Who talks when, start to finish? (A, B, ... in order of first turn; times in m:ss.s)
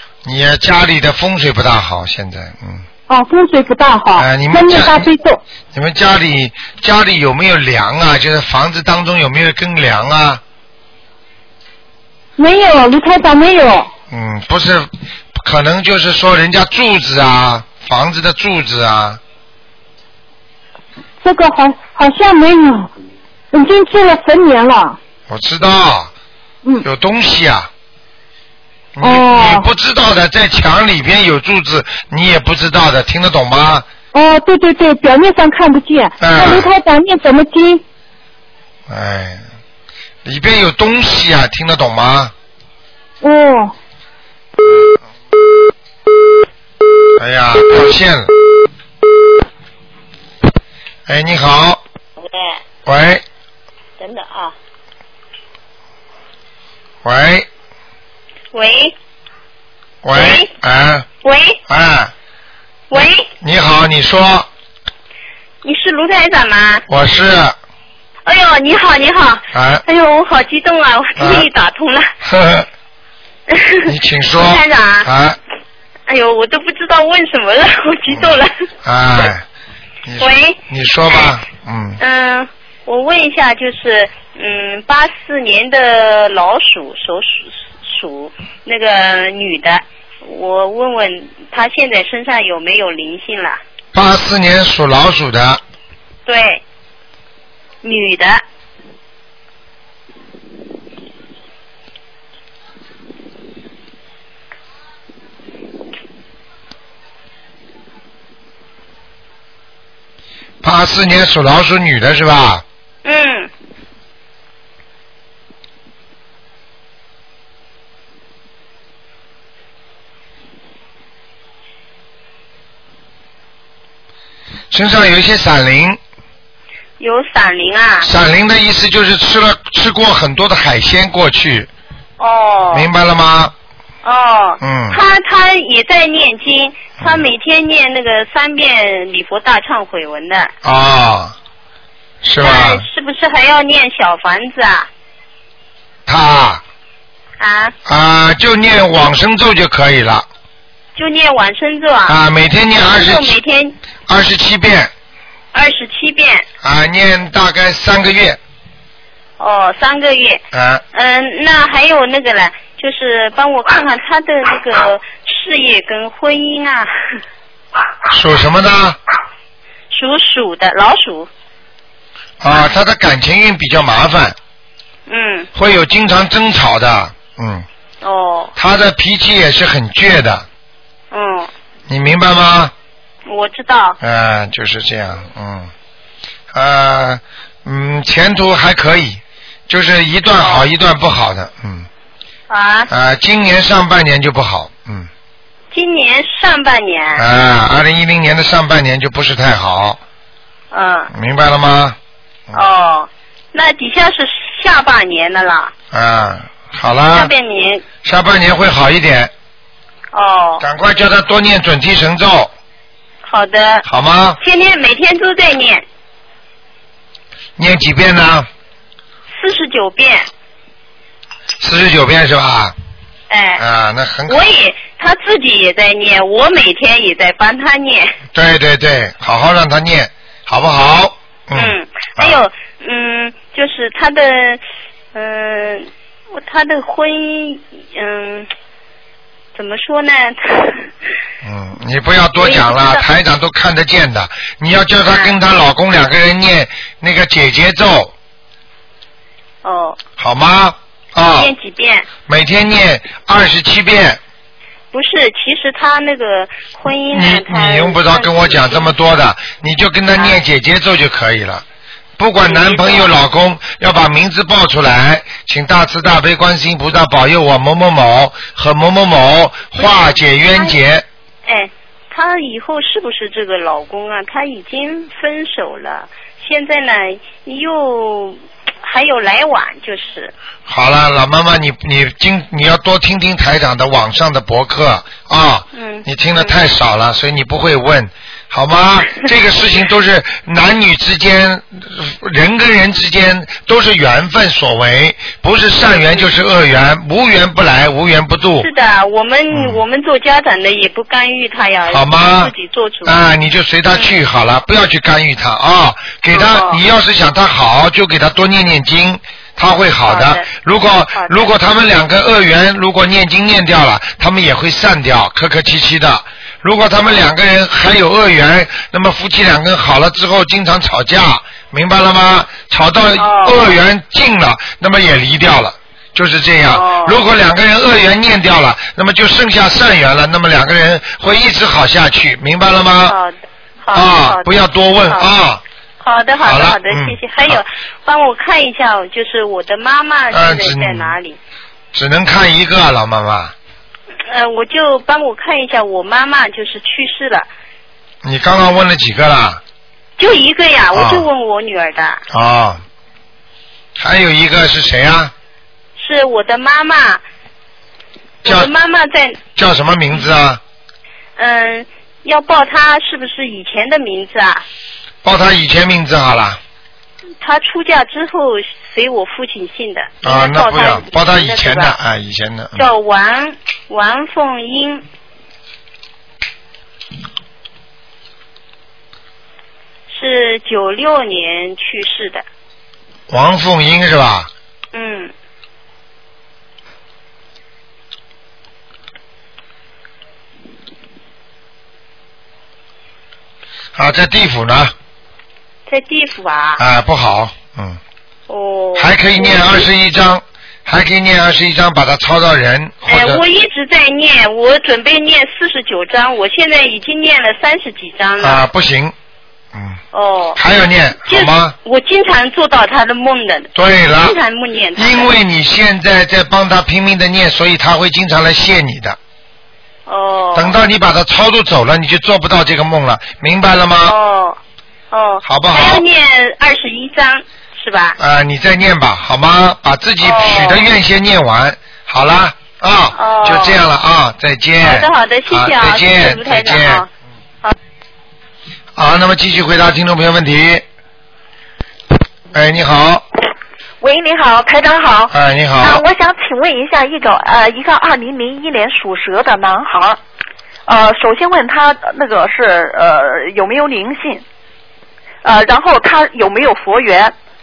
0:00.2-0:02.8 A
0:03.1-0:05.4 B
0:04.2-0:05.1 A
0:05.7-0:10.4 A
0:12.4-0:13.9 B
0:14.1-0:19.2 A
0:21.2-0:22.9 B
0:23.5-0:25.0 B
0:25.3-0:26.1 A
0:26.8-0:27.7 A
0:29.0-0:33.9 A
0:29.0-0:29.7 B
0:34.1-0:37.8 B
0:36.2-0:36.7 A
0:38.9-0:39.4 A
0:40.2-0:42.3 A
0:43.2-0:43.7 B
0:47.2-0:48.3 A
0:51.1-0:51.8 A
0:52.2-0:52.6 C
0:52.9-0:53.2 A
0:54.0-0:54.5 C
0:57.0-0:57.5 A
0:58.5-0:58.9 C
1:00.0-1:01.1 A
1:00.1-1:00.5 C
1:01.2-1:01.6 C
1:01.7-1:02.1 A
1:02.9-1:03.3 C
1:03.4-1:04.5 A
1:05.6-1:06.8 C
1:06.9-1:07.6 A
1:08.3-1:12.1 C
1:09.5-1:09.8 A
1:11.2-1:11.5 A
1:12.2-1:12.7 A
1:13.5-1:15.1 C
1:13.9-1:15.4 A
1:16.1-1:18.5 C
1:18.1-1:19.4 A
1:20.0-1:22.0 A
1:20.2-1:20.6 C
1:22.0-1:33.6 C
1:33.9-1:35.6 A
1:36.3-1:36.6 C
1:37.8-1:38.4 C
1:50.6-1:52.6 A
1:53.0-1:53.5 C
2:04.7-2:06.0 A
2:07.0-2:08.1 C
2:08.0-2:11.7 A
2:12.2-2:12.9 C
2:12.7-2:13.5 A
2:14.0-2:20.5 C
2:14.6-2:15.0 A
2:20.6-2:21.4 A
2:22.2-2:22.8 A
2:22.4-2:24.9 C
2:26.1-2:26.6 A
2:27.4-2:27.8 C
2:27.9-2:30.3 A
2:31.0-2:32.2 C
2:32.1-2:33.4 A
2:32.8-2:33.8 C
2:34.1-2:34.9 A
2:35.5-2:36.5 C
2:36.6-2:38.4 A
2:39.4-2:40.4 C
2:40.5-2:40.8 A
2:40.9-2:46.9 C
2:48.1-2:49.0 A
2:49.9-2:51.3 C
2:52.4-2:54.4 A
2:55.1-2:55.5 C
2:55.6-2:57.7 A
2:58.0-2:58.5 C
2:58.6-3:00.5 A
3:01.1-3:01.5 C
3:01.9-3:02.7 A
3:03.3-3:04.0 C
3:04.0-3:05.7 A
3:06.5-3:11.9 A
3:10.4-3:10.7 C
3:12.5-3:12.9 C
3:12.9-3:15.1 A
3:15.7-3:17.2 C
3:17.2-3:20.0 A
3:20.7-3:21.1 C
3:21.1-3:22.0 A
3:22.5-3:25.7 C
3:25.9-3:27.3 A
3:27.1-3:27.8 C
3:28.0-3:29.3 A
3:30.1-3:30.6 C
3:30.6-3:32.5 A
3:33.2-3:33.8 C
3:33.8-3:34.4 A
3:34.4-3:35.8 C
3:37.6-3:38.5 A
3:39.3-3:40.3 C
3:41.6-3:42.8 A
3:43.3-3:43.6 C
3:43.6-3:44.4 A
3:44.3-3:48.1 C
3:48.3-3:52.4 A
3:51.5-3:54.6 C
3:55.1-3:58.5 C
3:59.6-4:00.9 C
4:01.4-4:08.1 A
4:02.4-4:03.1 C
4:09.6-4:10.0 C
4:10.2-4:11.5 A
4:11.4-4:12.1 C
4:12.3-4:14.2 A
4:14.9-4:18.9 C
4:17.1-4:21.6 A
4:22.2-4:31.0 A
4:22.4-4:23.1 C
4:29.8-4:30.8 C
4:31.5-4:40.3 C
4:40.7-4:58.7 A
4:45.8-4:46.6 C
4:58.6-5:03.2 C
4:59.5-4:59.8 A
5:01.9-5:02.5 A
5:03.0-5:33.2 A
5:03.9-5:04.2 C
5:06.3-5:06.8 C
5:10.1-5:10.5 C
5:11.2-5:11.5 C
5:23.2-5:23.7 C
5:26.7-5:27.2 C
5:33.1-5:34.6 C
5:33.9-5:35.6 A
5:36.0-5:41.4 C
5:36.4-5:37.6 A
5:40.3-5:41.1 A
5:41.9-5:43.5 A
5:44.3-5:47.5 C
5:48.2-5:49.6 A
5:50.2-5:52.2 C
5:50.9-5:51.3 A
5:52.3-5:52.8 A
5:54.0-5:55.3 A
5:56.0-5:57.2 C
5:58.4-5:58.7 A
5:58.4-5:59.4 C
5:59.6-6:00.6 A
6:01.4-6:04.6 C
6:05.2-6:06.6 A
6:07.4-6:12.0 C
6:10.2-6:12.9 A
6:12.8-6:15.0 C
6:20.1-6:22.4 C
6:23.3-6:24.5 A
6:24.9-6:25.3 C
6:34.0-6:34.9 A
6:35.9-6:36.8 C
6:36.8-6:38.0 A
6:38.5-6:39.9 C
6:39.0-6:43.4 A
6:43.1-6:48.6 C
6:48.4-6:49.1 A
6:49.7-6:50.0 A
6:50.1-6:50.6 C
6:50.6-6:51.7 A
6:51.3-6:55.3 C
6:53.8-6:54.4 A
6:55.0-6:59.2 A
7:00.1-7:00.8 C
7:00.6-7:04.2 A
7:04.1-7:04.6 C
7:05.1-7:08.2 C
7:05.4-7:06.0 A
7:08.2-7:17.0 A
7:10.2-7:10.9 C
7:13.2-7:13.8 C
7:14.8-7:17.1 C
7:19.0-7:20.8 A
7:22.5-7:23.2 A
7:24.0-7:30.2 D
7:25.3-7:26.0 A
7:30.9-7:34.4 D
7:35.4-7:37.3 D